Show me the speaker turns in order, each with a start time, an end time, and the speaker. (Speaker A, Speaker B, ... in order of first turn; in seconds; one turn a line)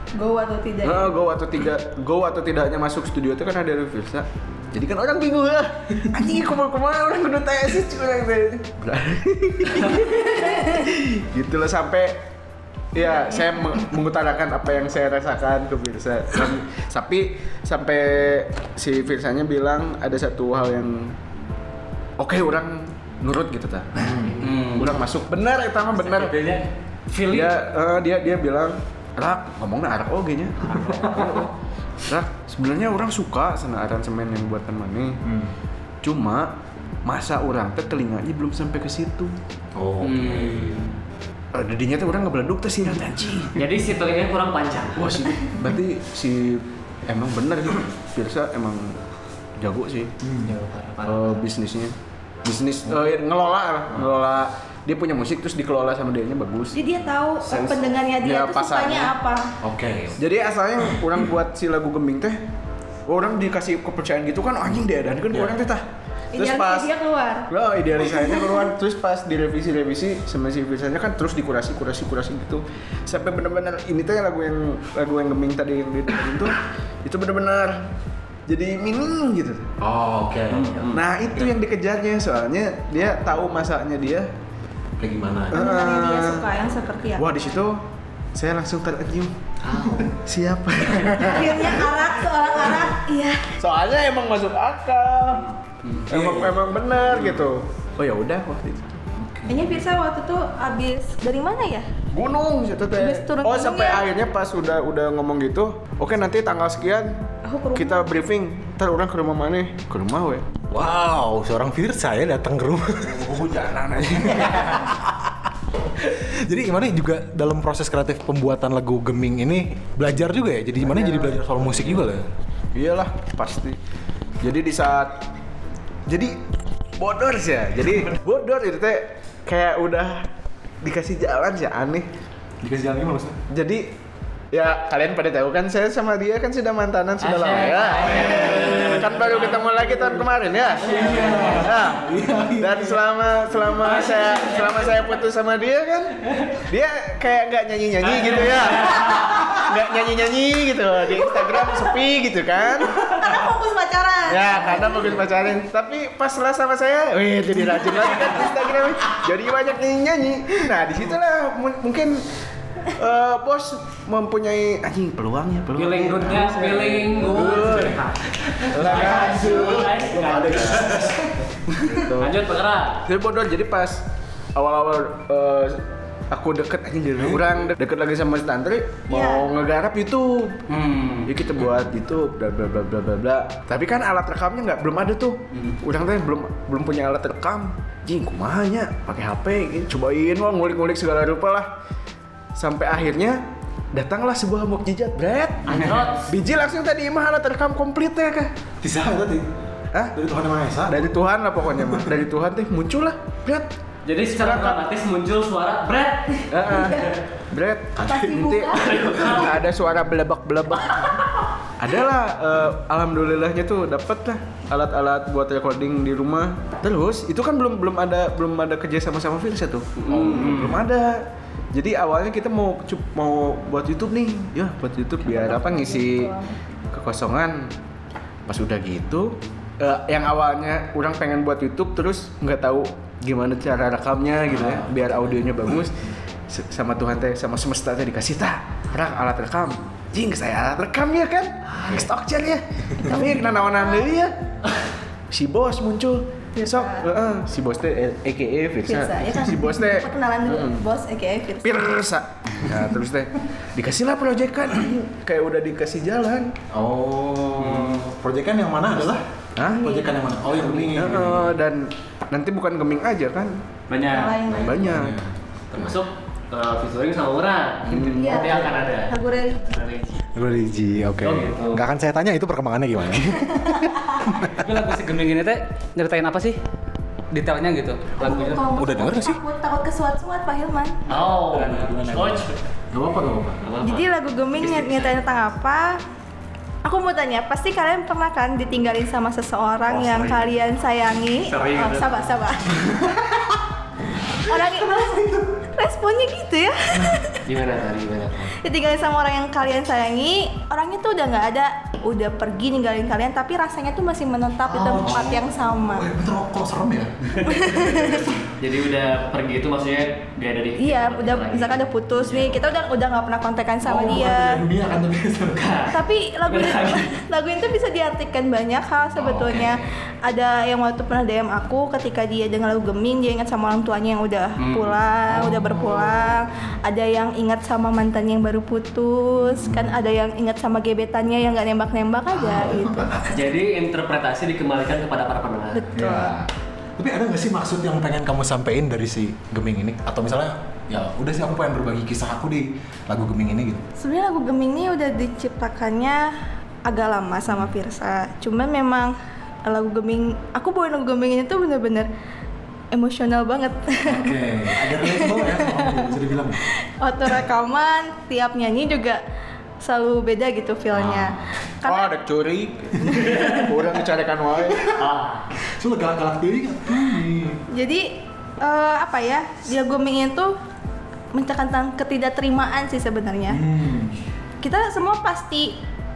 Speaker A: 0.1-1.1
Speaker B: 0.8-12.2
Speaker A: 10.0-10.8
Speaker B: 12.9-21.1
Speaker B: 22.2-26.4
Speaker C: 24.0-24.3
Speaker D: 24.4-25.0
Speaker D: 25.9-26.6
Speaker E: 27.1-27.5
Speaker B: 27.2-31.5
Speaker B: 32.1-35.2
Speaker C: 35.2-35.5
Speaker B: 36.0-36.5
Speaker B: 37.0-39.3
Speaker C: 39.7-40.9
Speaker D: 40.0-40.8
Speaker B: 41.5-43.5
Speaker E: 43.5-45.3
Speaker B: 44.9-49.0
Speaker B: 49.6-50.1
Speaker C: 50.2-50.5
Speaker E: 50.5-51.5
Speaker B: 51.0-56.8
Speaker A: 56.7-59.5
Speaker B: 58.1-59.1
Speaker C: 59.6-60.2
Speaker B: 60.2-62.4
Speaker C: 60.8-61.1
Speaker B: 63.1-65.8
Speaker C: 65.3-65.6
Speaker A: 66.3-67.5
Speaker B: 66.4-66.9
Speaker B: 67.5-77.8
Speaker A: 68.2-68.6
Speaker B: 78.5-79.7
Speaker C: 79.8-81.5
Speaker D: 80.5-81.0
Speaker B: 80.9-84.3
Speaker C: 85.0-85.7
Speaker B: 85.5-86.5
Speaker A: 85.5-87.2
Speaker B: 87.2-87.8
Speaker B: 88.3-89.3
Speaker E: 89.7-90.1
Speaker B: 90.0-92.1
Speaker A: 91.2-93.5
Speaker B: 93.6-95.5
Speaker B: 96.1-99.0
Speaker C: 96.1-96.7
Speaker C: 99.1-99.8
Speaker A: 99.5-101.9
Speaker B: 102.1-107.2
Speaker A: 103.0-104.0
Speaker A: 107.5-108.2
Speaker B: 107.7-110.5
Speaker C: 110.7-113.4
Speaker B: 113.0-114.9
Speaker C: 114.3-115.4
Speaker C: 115.9-122.3
Speaker B: 120.8-121.4
Speaker B: 122.7-123.8
Speaker B: 124.4-125.2
Speaker B: 126.1-126.4
Speaker B: 127.0-130.2
Speaker B: 130.8-132.1
Speaker C: 132.6-133.4
Speaker B: 133.5-133.9
Speaker B: 134.5-142.0
Speaker E: 137.2-139.6
Speaker D: 138.1-139.3
Speaker C: 138.4-138.9
Speaker C: 140.8-143.0
Speaker D: 140.9-141.5
Speaker B: 142.6-153.1
Speaker D: 144.1-144.7
Speaker A: 151.2-151.9
Speaker A: 153.0-154.8
Speaker B: 154.3-162.2
Speaker C: 157.5-158.5
Speaker B: 162.9-168.0
Speaker E: 165.7-168.0
Speaker C: 167.2-168.0
Speaker C: 168.5-172.1
Speaker B: 168.6-169.9
Speaker D: 168.8-171.1
Speaker E: 168.9-169.4
Speaker E: 170.0-170.6
Speaker B: 171.7-172.3
Speaker E: 172.2-173.1
Speaker B: 173.0-174.0
Speaker B: 174.5-180.6
Speaker A: 179.1-179.4
Speaker D: 180.7-181.3
Speaker B: 181.2-191.7
Speaker B: 192.6-193.4
Speaker B: 193.9-198.5
Speaker E: 195.7-196.2
Speaker D: 195.7-196.1
Speaker C: 198.8-199.5
Speaker C: 200.1-201.1
Speaker B: 200.8-203.7
Speaker C: 201.8-202.0
Speaker E: 204.1-206.4
Speaker B: 204.3-204.8
Speaker B: 206.5-211.2
Speaker A: 206.7-207.1
Speaker C: 207.9-208.5
Speaker A: 208.1-209.0
Speaker E: 208.8-209.5
Speaker B: 211.8-226.3
Speaker C: 220.1-220.5
Speaker E: 220.1-220.5
Speaker D: 220.3-220.8
Speaker A: 225.2-226.5
Speaker B: 226.9-227.7
Speaker B: 228.5-235.9
Speaker C: 234.5-235.8
Speaker B: 236.5-244.3
Speaker A: 243.0-243.4
Speaker B: 245.3-250.8
Speaker A: 246.6-247.1
Speaker A: 248.9-252.0
Speaker B: 251.6-256.6
Speaker C: 256.7-261.5
Speaker D: 257.7-257.9
Speaker B: 259.6-259.9
Speaker A: 259.8-260.2
Speaker D: 260.5-261.0
Speaker B: 260.9-263.6
Speaker D: 263.9-264.6
Speaker A: 264.1-264.9
Speaker B: 264.5-265.2
Speaker C: 264.8-265.9
Speaker E: 265.8-270.3
Speaker B: 267.9-268.8
Speaker A: 268.1-269.8
Speaker C: 270.3-274.7
Speaker E: 271.2-271.8
Speaker A: 273.3-274.2
Speaker D: 274.5-276.6
Speaker D: 277.3-278.7
Speaker A: 278.2-281.0
Speaker C: 278.7-279.4
Speaker D: 281.1-282.3
Speaker E: 281.1-282.5
Speaker C: 281.5-283.6
Speaker E: 283.6-284.1
Speaker A: 283.8-286.0
Speaker E: 284.6-285.0
Speaker A: 286.8-293.1
Speaker D: 291.5-292.1
Speaker C: 292.9-293.2
Speaker A: 294.4-297.4
Speaker E: 297.4-298.5
Speaker A: 298.6-306.1
Speaker C: 305.0-308.2
Speaker A: 307.4-308.3
Speaker E: 308.6-311.7
Speaker A: 310.8-314.6
Speaker C: 313.8-315.8
Speaker A: 315.9-333.1
Speaker D: 316.6-316.9
Speaker D: 319.3-319.8
Speaker D: 324.6-324.9
Speaker C: 325.3-326.4
Speaker C: 329.4-329.9
Speaker C: 332.3-333.4
Speaker E: 333.3-335.9
Speaker A: 335.7-336.4
Speaker C: 335.9-343.8
Speaker A: 344.0-346.2
Speaker A: 346.9-349.1
Speaker A: 349.6-352.1
Speaker A: 352.9-356.0
Speaker C: 354.1-356.6
Speaker A: 357.0-359.2
Speaker A: 359.8-362.1
Speaker C: 360.9-361.5
Speaker B: 361.8-364.9
Speaker A: 363.0-363.6
Speaker C: 363.1-363.7
Speaker E: 365.0-365.5
Speaker C: 365.7-367.6
Speaker A: 367.7-370.5
Speaker A: 371.3-373.6
Speaker C: 373.5-374.2
Speaker A: 374.6-375.7